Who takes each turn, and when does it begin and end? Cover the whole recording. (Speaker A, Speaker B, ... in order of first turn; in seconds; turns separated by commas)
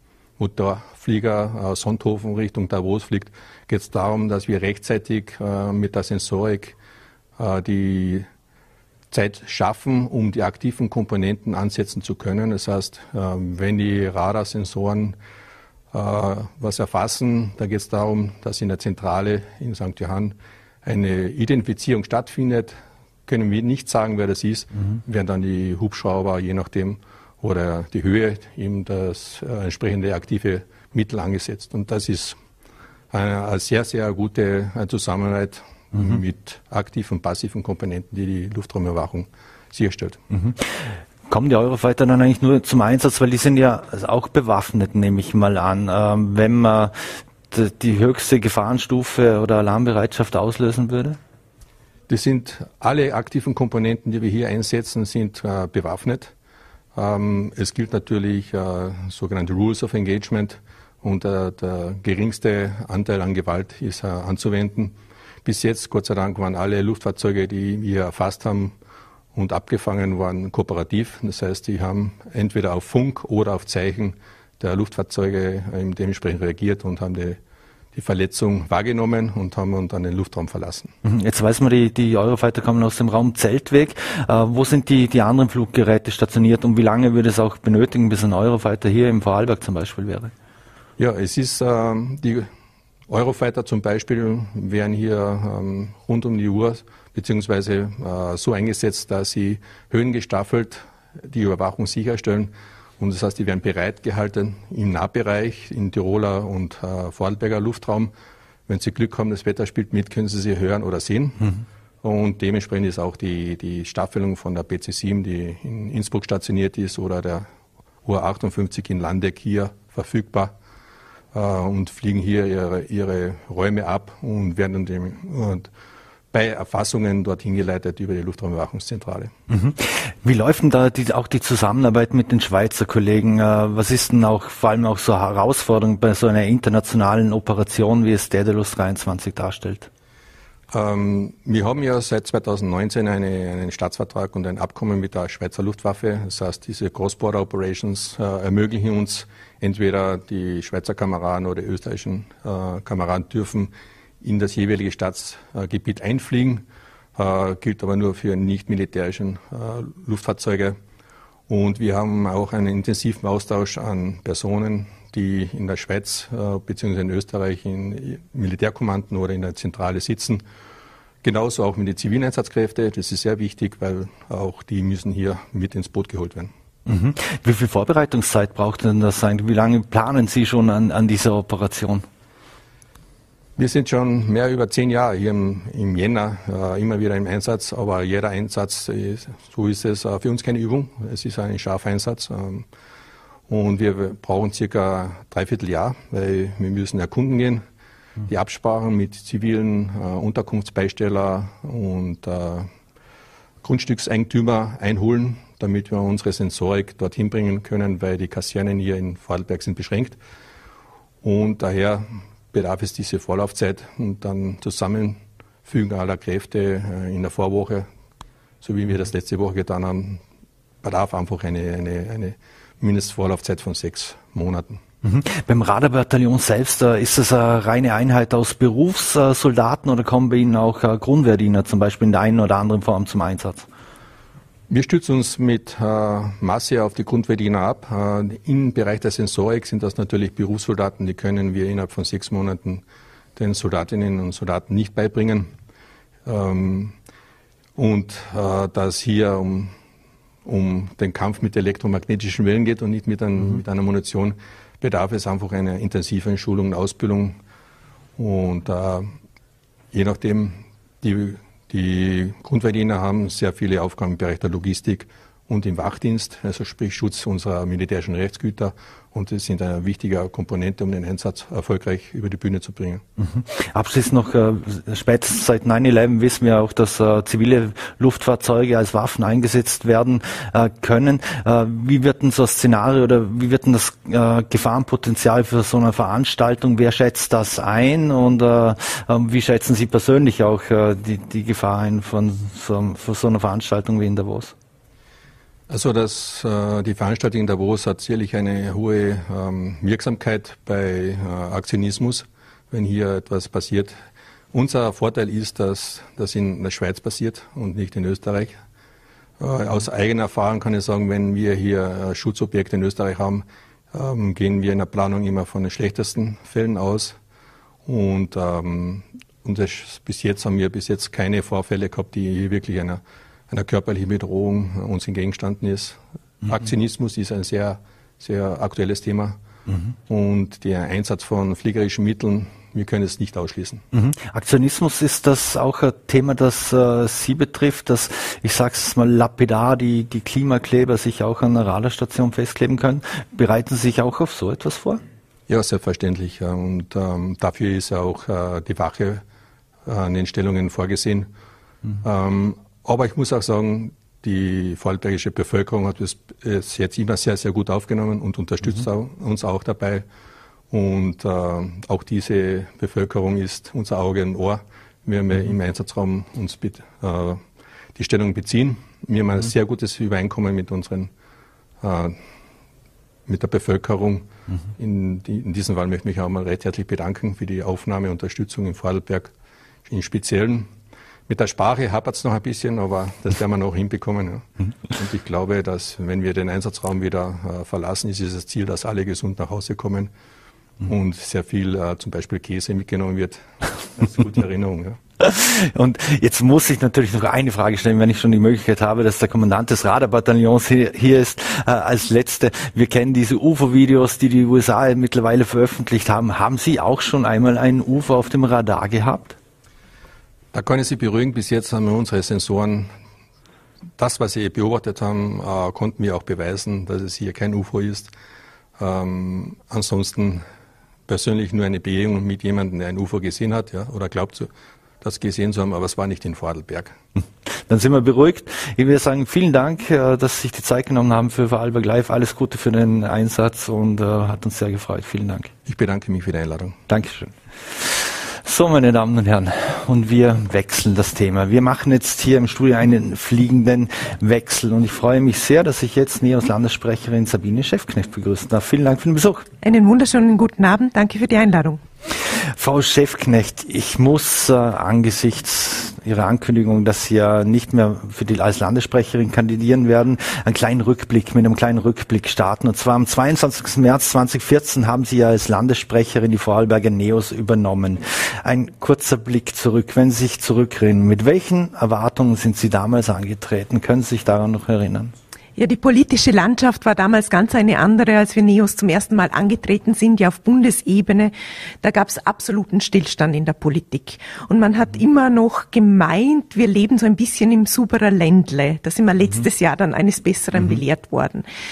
Speaker A: 0.4-6.8, Speaker A: 7.4-8.3, Speaker A: 9.1-15.2, Speaker A: 15.9-22.8, Speaker A: 23.3-32.4, Speaker A: 33.1-40.2, Speaker B: 40.3-51.2, Speaker A: 52.1-56.3, Speaker A: 57.0-68.8, Speaker A: 69.3-77.4, Speaker A: 77.9-80.9, Speaker B: 81.0-90.3, Speaker A: 91.0-92.5, Speaker A: 93.1-108.1, Speaker A: 108.7-117.5, Speaker A: 118.0-120.5, Speaker A: 121.3-125.7, Speaker A: 126.3-129.3, Speaker B: 129.5-139.9, Speaker A: 140.7-156.7, Speaker A: 157.2-160.8, Speaker A: 161.5-170.4, Speaker A: 171.2-176.5, Speaker B: 176.9-182.1, Speaker A: 183.6-192.7, Speaker A: 193.5-197.6, Speaker A: 198.3-202.7, Speaker A: 203.6-210.2, Speaker A: 211.2-217.9, Speaker A: 218.6-220.2, Speaker A: 220.8-224.8, Speaker B: 225.0-233.7, Speaker A: 234.7-242.8, Speaker A: 243.4-245.5, Speaker A: 246.3-247.0, Speaker A: 247.8-249.7, Speaker A: 250.4-257.4, Speaker A: 258.2-259.1, Speaker A: 259.9-273.0, Speaker B: 273.2-294.5, Speaker A: 295.7-303.9, Speaker A: 304.5-308.6, Speaker A: 309.4-317.2, Speaker A: 317.9-329.4, Speaker A: 330.1-333.8, Speaker B: 333.9-345.0, Speaker A: 345.5-349.2, Speaker A: 349.9-351.3, Speaker A: 352.0-360.1, Speaker A: 360.7-367.4, Speaker A: 368.0-371.1, Speaker A: 371.8-372.2, Speaker A: 373.3-379.3, Speaker A: 379.9-380.7, Speaker A: 381.3-390.1, Speaker A: 390.8-395.0, Speaker B: 395.2-409.4, Speaker A: 410.5-412.9, Speaker A: 414.0-418.1, Speaker A: 418.8-420.4, Speaker A: 421.1-424.5, Speaker A: 425.0-427.0, Speaker B: 427.5-435.5, Speaker A: 435.7-436.8, Speaker B: 436.9-449.5, Speaker C: 449.6-451.8, Speaker B: 452.2-475.1, Speaker C: 475.6-491.5